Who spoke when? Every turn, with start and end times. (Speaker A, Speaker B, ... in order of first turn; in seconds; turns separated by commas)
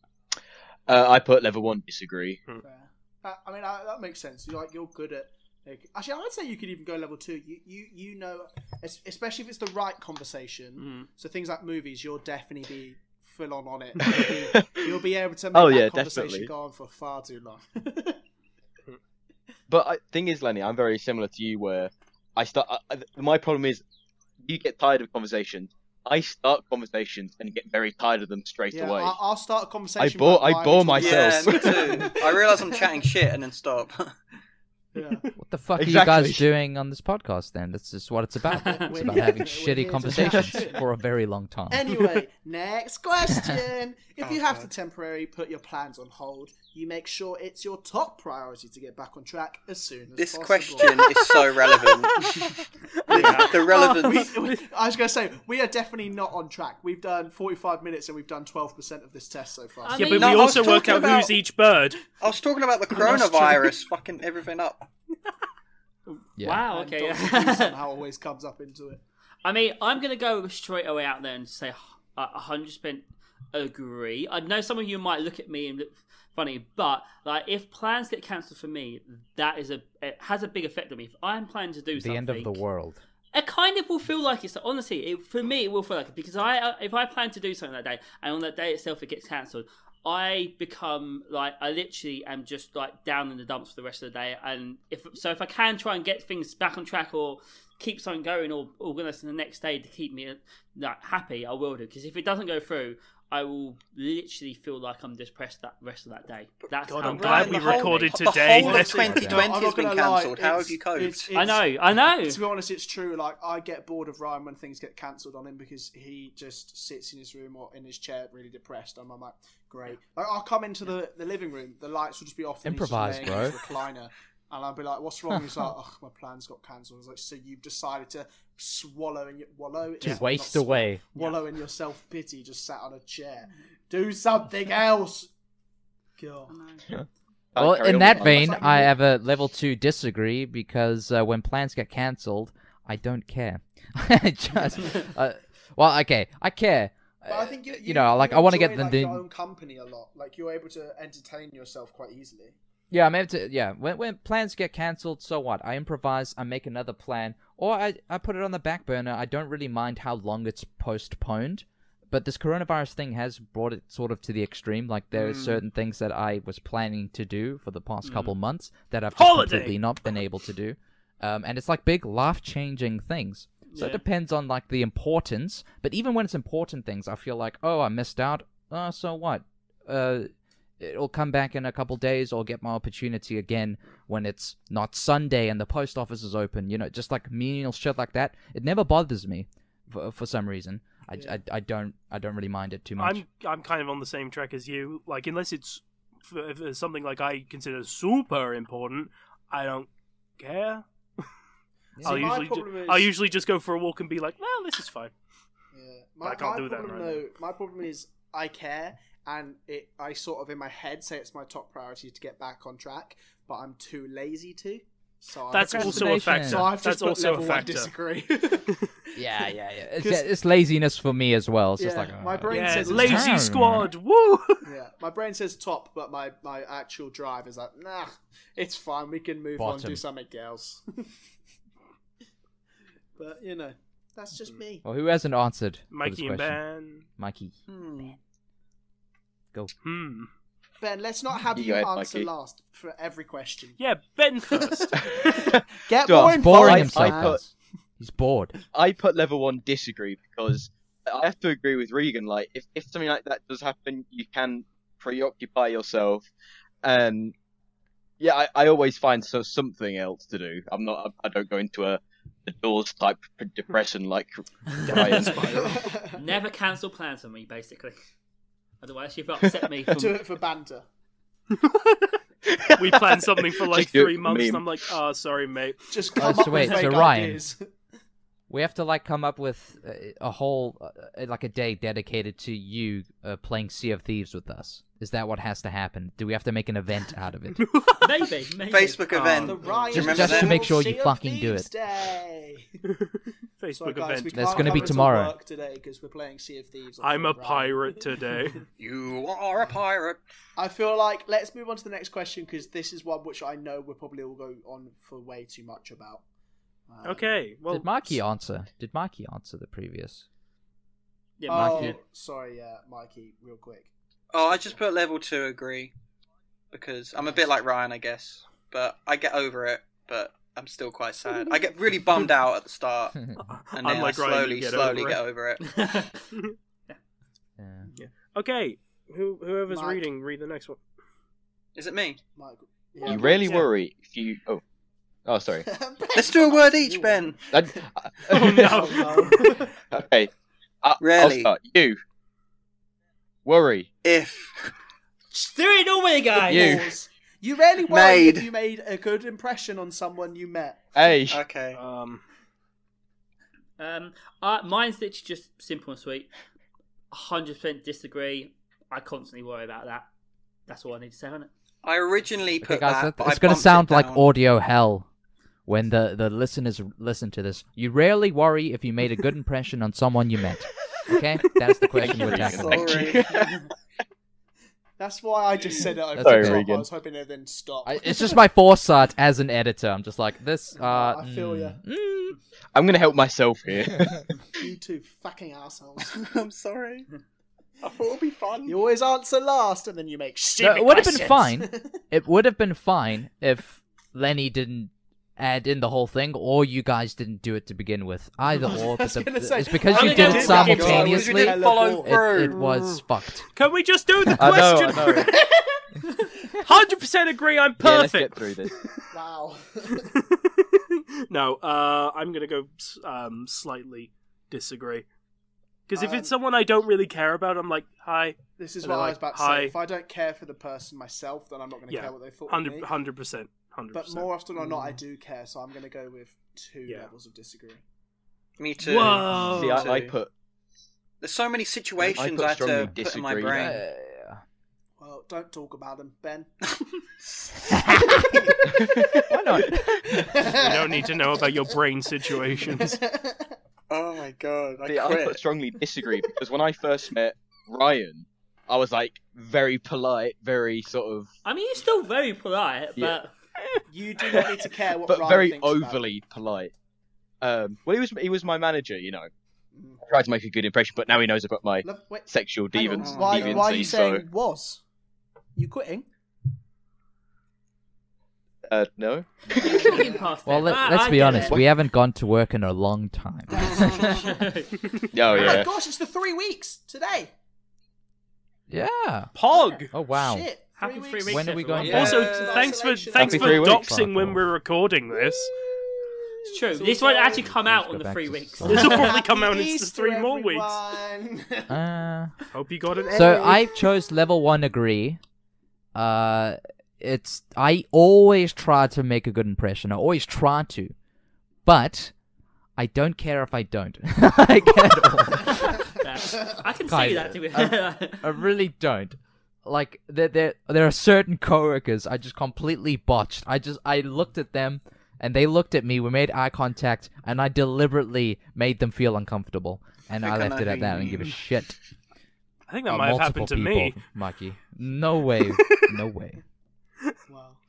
Speaker A: 0.9-2.4, Speaker B: 2.6-18.2, Speaker A: 14.0-14.9, Speaker A: 15.5-16.5, Speaker A: 19.7-23.8, Speaker A: 24.4-29.2, Speaker B: 28.7-32.9, Speaker A: 30.0-31.9, Speaker C: 31.0-34.2, Speaker B: 35.0-35.3, Speaker D: 35.4-42.1, Speaker A: 35.8-36.5, Speaker E: 38.5-38.9, Speaker B: 38.6-40.8, Speaker B: 41.7-51.3, Speaker C: 44.2-44.7, Speaker C: 50.2-52.5, Speaker F: 50.9-54.6, Speaker B: 53.1-60.2, Speaker C: 53.1-54.3, Speaker E: 53.2-53.5, Speaker E: 59.8-60.7, Speaker F: 59.9-62.0, Speaker C: 60.1-61.4, Speaker C: 62.2-64.9, Speaker F: 62.9-63.7, Speaker E: 66.4-67.8, Speaker B: 66.7-69.0, Speaker E: 69.4-82.6, Speaker D: 82.0-83.0, Speaker E: 83.3-108.3, Speaker F: 106.9-109.2, Speaker C: 107.0-111.4, Speaker B: 108.5-135.3, Speaker D: 109.1-109.5, Speaker E: 111.3-112.4, Speaker D: 122.6-123.6, Speaker D: 130.0-131.1, Speaker B: 136.2-136.6, Speaker E: 136.5-137.0, Speaker A: 137.6-138.6, Speaker D: 137.6-149.2, Speaker B: 138.1-138.9, Speaker B: 147.3-152.6, Speaker D: 152.9-180.3, Speaker E: 168.0-168.3, Speaker F: 169.2-169.8, Speaker E: 173.7-174.0, Speaker D: 180.8-193.2, Speaker F: 193.0-200.8, Speaker D: 202.0-202.3, Speaker B: 202.0-203.1, Speaker F: 202.0-205.1, Speaker B: 205.7-219.2, Speaker F: 206.2-207.2, Speaker F: 215.5-217.9, Speaker D: 215.5-216.7, Speaker D: 219.2-223.9, Speaker B: 220.0-220.3, Speaker B: 221.8-223.3, Speaker F: 222.5-224.7, Speaker B: 224.7-231.1, Speaker D: 229.6-230.0, Speaker B: 233.2-234.8, Speaker D: 234.8-237.5, Speaker F: 235.9-237.1, Speaker C: 237.7-238.2, Speaker F: 239.8-240.3, Speaker B: 240.8-243.8, Speaker A: 241.5-242.3, Speaker F: 243.8-245.3, Speaker B: 244.5-247.5, Speaker A: 245.0-247.4, Speaker D: 246.2-248.6, Speaker A: 248.7-256.3, Speaker A: 256.8-257.3, Speaker A: 258.2-265.8, Speaker F: 264.8-265.8, Speaker E: 264.9-265.5, Speaker B: 265.5-266.2, Speaker E: 266.1-268.0, Speaker E: 268.8-270.2, Speaker B: 269.9-270.9, Speaker F: 271.5-272.2, Speaker A: 272.5-274.7, Speaker F: 272.8-276.7, Speaker B: 275.9-277.6, Speaker D: 276.2-277.4, Speaker D: 278.5-287.7, Speaker F: 287.6-288.2, Speaker E: 288.0-289.4, Speaker C: 288.7-290.7, Speaker F: 289.1-289.9, Speaker B: 289.4-292.7, Speaker D: 289.9-291.7, Speaker F: 292.9-294.9, Speaker B: 293.7-297.9, Speaker D: 294.3-295.3, Speaker F: 297.0-298.6, Speaker C: 298.8-300.2, Speaker B: 300.6-306.2, Speaker B: 306.9-307.3, Speaker F: 307.0-308.2, Speaker D: 307.7-310.2, Speaker E: 311.4-312.0, Speaker B: 311.5-313.9, Speaker D: 311.5-311.9, Speaker C: 314.3-315.9, Speaker C: 316.7-323.2, Speaker F: 323.4-325.2, Speaker C: 323.8-326.0, Speaker E: 325.7-326.2, Speaker D: 327.6-327.9, Speaker F: 328.0-330.8, Speaker B: 329.7-330.0, Speaker C: 331.8-332.2, Speaker B: 332.4-333.7, Speaker A: 333.0-334.6, Speaker A: 335.3-335.7, Speaker B: 335.7-337.9, Speaker C: 336.1-337.5, Speaker A: 337.5-339.0, Speaker F: 338.3-339.6, Speaker B: 338.4-339.8, Speaker A: 339.9-340.3, Speaker A: 340.8-342.0, Speaker C: 341.0-341.5, Speaker A: 343.4-343.9, Speaker C: 344.0-344.7, Speaker E: 345.3-346.8, Speaker B: 346.4-350.9, Speaker A: 346.5-346.9, Speaker C: 347.9-348.5, Speaker A: 350.9-351.4, Speaker C: 351.3-351.8, Speaker F: 351.8-352.2, Speaker E: 353.8-356.3, Speaker E: 357.1-360.1, Speaker E: 360.7-361.5, Speaker C: 361.8-364.3, Speaker D: 362.6-365.1, Speaker D: 365.7-373.1, Speaker A: 372.0-373.6, Speaker C: 372.3-373.6, Speaker B: 375.0-378.4, Speaker D: 376.2-376.7, Speaker A: 376.2-376.9, Speaker D: 377.9-382.4, Speaker B: 380.8-381.8, Speaker A: 382.8-384.3, Speaker B: 384.6-386.2, Speaker C: 386.1-387.1, Speaker C: 387.8-388.8, Speaker B: 388.6-392.0, Speaker D: 390.6-403.5, Speaker B: 398.6-402.2, Speaker E: 399.9-401.1, Speaker C: 400.0-402.9, Speaker F: 400.2-400.6, Speaker F: 403.5-405.3, Speaker A: 404.4-405.3, Speaker B: 405.3-405.8, Speaker F: 406.6-408.4, Speaker A: 407.8-408.8, Speaker B: 409.1-410.1, Speaker F: 410.0-415.1, Speaker F: 415.9-419.8, Speaker B: 415.9-416.3, Speaker B: 418.6-422.9, Speaker F: 421.9-424.3, Speaker B: 423.9-427.8, Speaker C: 428.6-430.2, Speaker F: 428.8-429.9, Speaker A: 429.4-430.3, Speaker C: 431.2-433.8, Speaker A: 432.0-433.7, Speaker D: 433.5-434.4, Speaker B: 435.0-437.0, Speaker B: 437.6-441.1, Speaker D: 437.8-438.4, Speaker A: 438.7-439.2, Speaker D: 439.3-440.4, Speaker F: 440.5-443.0, Speaker B: 442.6-443.6, Speaker C: 443.9-445.4, Speaker A: 444.9-451.3, Speaker E: 451.4-453.3, Speaker B: 453.9-456.0, Speaker A: 454.3-456.7, Speaker A: 457.4-459.3, Speaker B: 459.8-460.0, Speaker A: 460.1-464.2, Speaker B: 461.8-464.8, Speaker C: 462.9-463.8, Speaker B: 465.6-466.1, Speaker A: 468.7-470.1, Speaker B: 469.6-470.4, Speaker E: 469.6-471.6, Speaker D: 470.5-474.3, Speaker B: 473.6-474.4, Speaker E: 474.0-474.9, Speaker A: 475.1-475.7, Speaker B: 475.3-477.3, Speaker D: 478.7-479.3, Speaker F: 479.4-479.9, Speaker D: 479.9-480.5, Speaker B: 480.1-483.8, Speaker E: 480.8-482.6, Speaker D: 481.3-482.3, Speaker C: 481.8-482.7, Speaker F: 481.8-485.6, Speaker D: 483.2-484.5, Speaker A: 483.2-483.9, Speaker B: 485.6-487.5, Speaker E: 486.4-489.1, Speaker D: 487.4-489.0, Speaker F: 488.6-490.8, Speaker B: 488.7-491.8, Speaker D: 491.7-492.4, Speaker F: 492.5-493.5, Speaker B: 493.0-493.8, Speaker D: 493.1-495.2, Speaker D: 495.9-500.9, Speaker D: 501.7-502.1, Speaker D: 502.8-505.9, Speaker E: 505.6-508.3, Speaker D: 506.9-521.8, Speaker C: 520.2-521.4, Speaker F: 522.7-524.0, Speaker D: 522.9-526.4, Speaker B: 527.3-527.6